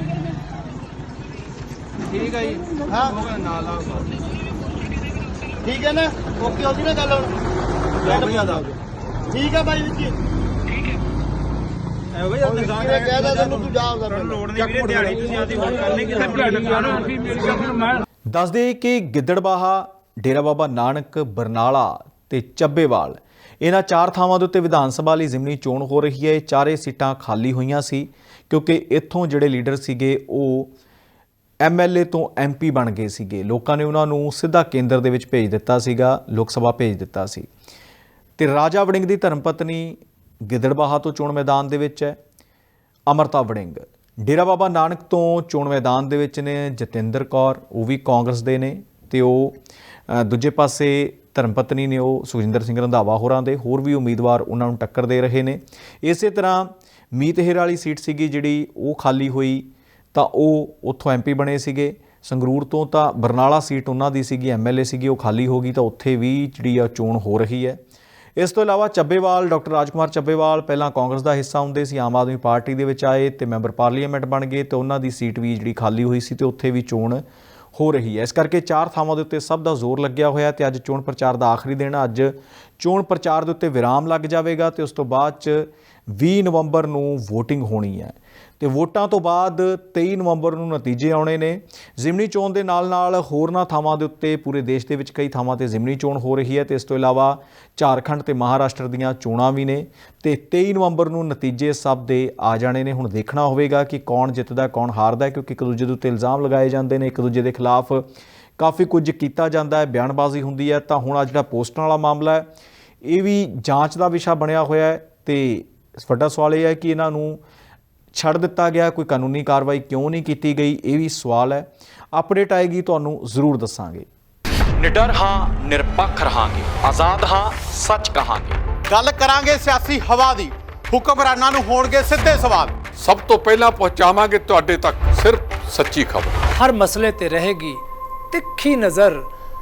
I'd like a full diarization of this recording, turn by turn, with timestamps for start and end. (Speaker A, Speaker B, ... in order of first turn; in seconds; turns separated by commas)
Speaker A: 2.1-4.0, Speaker B: 2.9-3.2, Speaker B: 5.6-7.3, Speaker B: 8.0-8.8, Speaker B: 9.3-10.1, Speaker B: 12.4-14.6, Speaker A: 15.0-17.1, Speaker B: 15.8-16.5, Speaker B: 17.3-17.6, Speaker C: 18.3-30.7, Speaker C: 31.6-37.5, Speaker C: 38.4-42.2, Speaker C: 43.1-49.5, Speaker C: 50.1-67.8, Speaker C: 68.4-77.2, Speaker C: 77.7-108.1, Speaker C: 108.6-112.5, Speaker C: 113.0-117.4, Speaker C: 118.1-124.1, Speaker C: 124.8-128.6, Speaker D: 128.9-132.8, Speaker E: 132.9-136.4, Speaker F: 136.5-139.3